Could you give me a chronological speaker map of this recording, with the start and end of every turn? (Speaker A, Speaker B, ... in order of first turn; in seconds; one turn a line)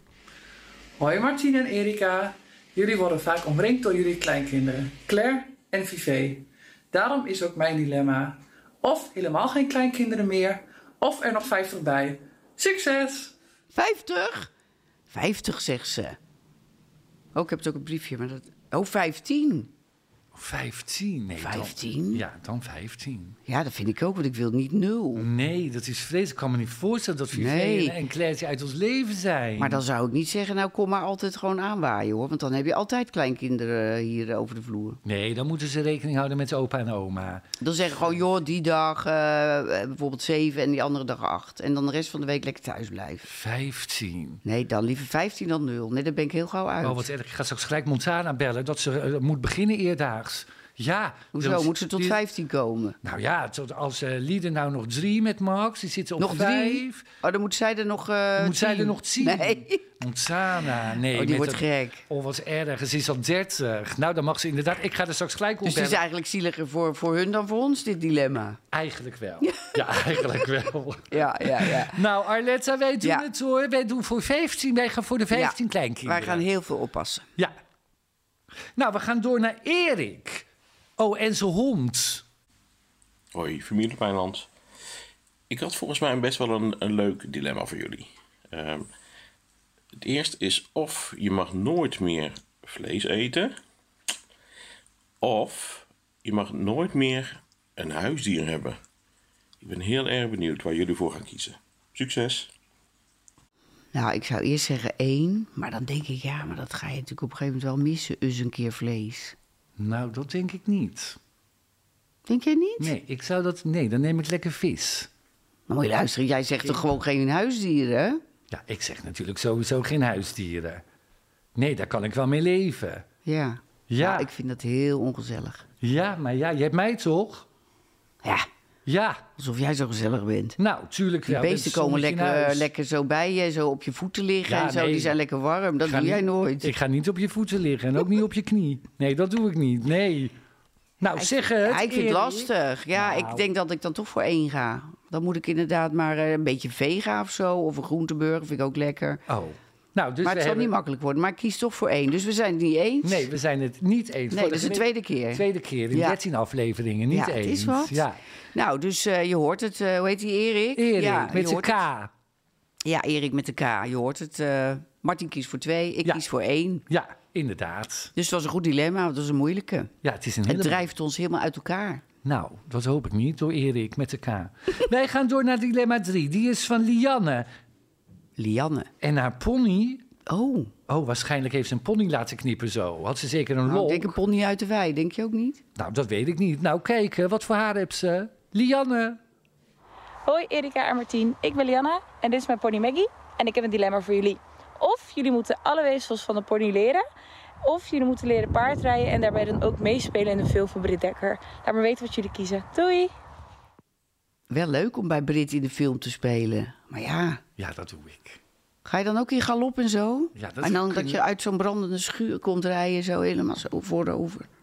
Speaker A: 1.0-13.3
Speaker B: 13.7-14.5
Speaker B: 15.1-16.2
Speaker B: 17.3-19.7
Speaker C: 20.3-23.4
Speaker B: 21.4-22.2
Speaker B: 23.5-25.3
Speaker C: 25.1-29.8
Speaker B: 27.3-28.0
Speaker B: 29.6-35.0
Speaker C: 35.0-37.4
Speaker B: 37.6-43.2
Speaker C: 43.2-44.4
Speaker B: 44.4-47.0
Speaker C: 46.8-52.2
Speaker B: 51.3-53.0
Speaker C: 53.0-57.0
Speaker B: 56.2-59.8
Speaker C: 58.4-66.0
Speaker B: 61.1-62.0
Speaker B: 65.6-68.6
Speaker C: 68.7-76.4
Speaker B: 69.4-69.8
Speaker B: 71.1-72.0
Speaker B: 75.3-77.3
Speaker C: 78.8-80.5
Speaker C: 81.0-82.2
Speaker D: 83.3-84.5
Speaker D: 85.5-88.9
Speaker D: 90.0-93.5
Speaker D: 95.2-98.8
Speaker D: 99.6-102.5
Speaker B: 103.9-109.3
Speaker C: 109.8-111.2
Speaker B: 112.3-112.9
Speaker C: 112.8-115.1
Speaker B: 115.7-118.2
Speaker C: 118.5-120.8
Speaker C: 121.5-123.0
Speaker B: 123.2-125.6
Speaker C: 123.9-124.3
Speaker C: 125.8-127.5
Speaker C: 128.8-129.2
Speaker B: 129.4-130.6
Speaker C: 130.6-132.7
Speaker B: 131.3-136.7
Speaker C: 134.5-135.1
Speaker C: 135.8-140.3
Speaker C: 141.0-143.4
Speaker B: 141.2-149.2
Speaker C: 149.3-150.7
Speaker B: 150.2-153.2
Speaker C: 153.0-158.2
Speaker B: 154.3-156.2
Speaker B: 157.1-161.8
Speaker C: 160.8-162.1
Speaker B: 162.8-166.8
Speaker C: 166.9-168.1
Speaker B: 168.1-169.9
Speaker C: 170.0-170.9
Speaker B: 170.5-172.0
Speaker C: 172.2-177.5
Speaker B: 178.4-178.9
Speaker C: 179.0-180.0
Speaker B: 180.3-180.7
Speaker C: 180.9-184.2
Speaker B: 183.7-185.6
Speaker C: 185.8-189.2
Speaker E: 190.2-197.0
Speaker E: 197.6-203.1
Speaker B: 204.5-207.4
Speaker C: 207.6-208.4
Speaker B: 208.8-214.5
Speaker C: 210.4-211.2